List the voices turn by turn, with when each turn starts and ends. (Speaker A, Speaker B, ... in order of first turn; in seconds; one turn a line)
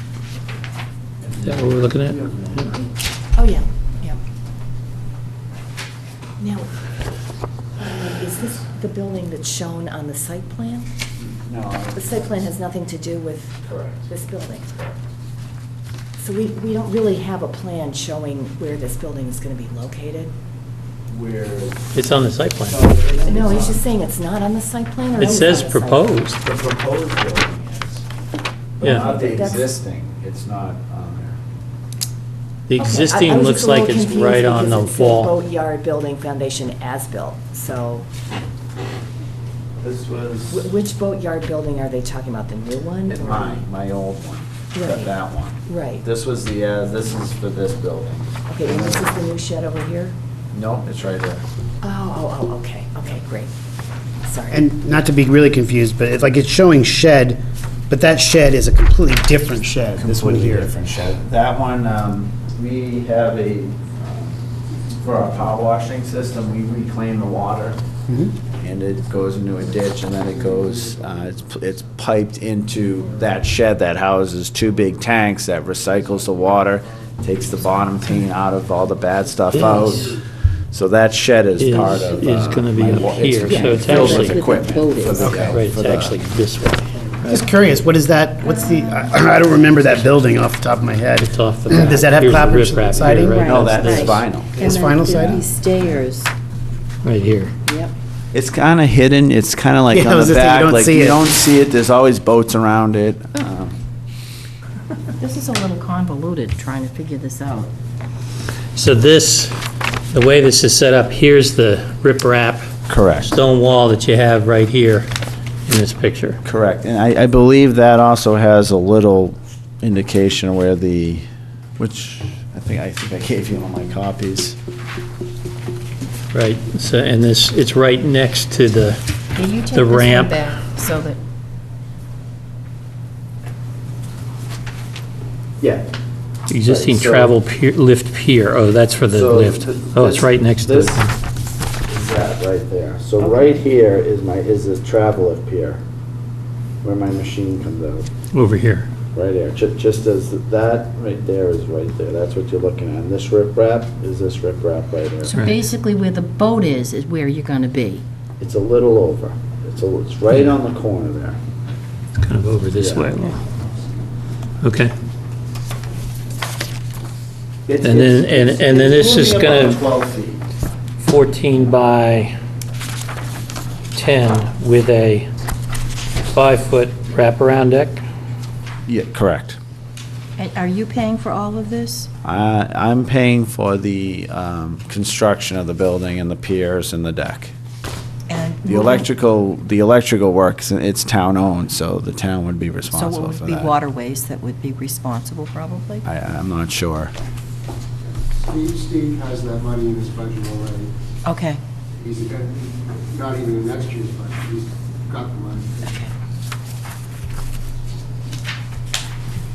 Speaker A: 1.4-2.7
Speaker B: 3.3-4.2
Speaker B: 6.4-6.7
Speaker B: 7.8-10.9
Speaker C: 11.2-12.3
Speaker B: 11.9-14.7
Speaker C: 13.6-14.1
Speaker B: 16.2-20.3
Speaker C: 21.1-22.0
Speaker A: 21.9-22.8
Speaker C: 22.6-23.8
Speaker B: 23.2-26.3
Speaker A: 25.2-26.4
Speaker C: 26.4-28.0
Speaker C: 28.8-31.4
Speaker B: 28.8-29.7
Speaker A: 32.7-35.4
Speaker B: 32.8-38.0
Speaker C: 39.8-40.7
Speaker B: 40.5-43.6
Speaker C: 43.0-49.1
Speaker B: 44.7-45.1
Speaker B: 45.6-46.0
Speaker B: 48.5-50.1
Speaker C: 50.5-51.4
Speaker B: 51.8-53.5
Speaker B: 54.2-54.7
Speaker D: 54.5-60.7
Speaker C: 60.0-64.4
Speaker C: 65.0-67.8
Speaker D: 68.1-68.3
Speaker C: 68.6-86.2
Speaker A: 79.5-80.1
Speaker A: 81.6-84.4
Speaker E: 83.5-85.5
Speaker D: 85.2-85.6
Speaker A: 85.5-87.5
Speaker D: 87.3-93.5
Speaker E: 88.4-89.1
Speaker A: 91.2-94.2
Speaker E: 93.2-96.3
Speaker C: 93.4-94.5
Speaker D: 94.5-95.5
Speaker A: 97.0-97.5
Speaker E: 97.6-97.9
Speaker C: 98.3-103.8
Speaker D: 99.9-101.2
Speaker E: 105.2-107.7
Speaker A: 108.7-109.5
Speaker A: 110.1-112.7
Speaker C: 112.9-113.3
Speaker A: 113.2-115.1
Speaker A: 115.7-116.4
Speaker C: 116.4-121.2
Speaker C: 121.8-124.6
Speaker A: 126.3-129.0
Speaker E: 129.3-131.2
Speaker A: 129.7-130.5
Speaker C: 135.6-135.9
Speaker A: 136.5-141.1
Speaker C: 136.6-137.3
Speaker C: 139.0-141.0
Speaker C: 141.8-145.8
Speaker E: 143.2-143.5
Speaker C: 146.8-148.1
Speaker A: 148.3-148.9
Speaker C: 149.1-155.3
Speaker E: 155.2-158.0
Speaker A: 155.3-155.6
Speaker C: 158.4-161.4
Speaker A: 162.2-163.4
Speaker C: 162.8-163.1
Speaker A: 164.6-164.9
Speaker C: 167.7-170.4
Speaker A: 167.8-169.8
Speaker A: 171.0-172.3
Speaker A: 173.9-175.3
Speaker A: 176.3-178.0
Speaker C: 178.8-179.6
Speaker E: 180.4-182.1
Speaker C: 182.2-187.5
Speaker E: 188.3-189.1
Speaker C: 188.6-193.7
Speaker E: 192.9-196.1
Speaker C: 196.0-197.1
Speaker F: 198.3-200.9
Speaker E: 201.2-201.6
Speaker F: 201.9-205.9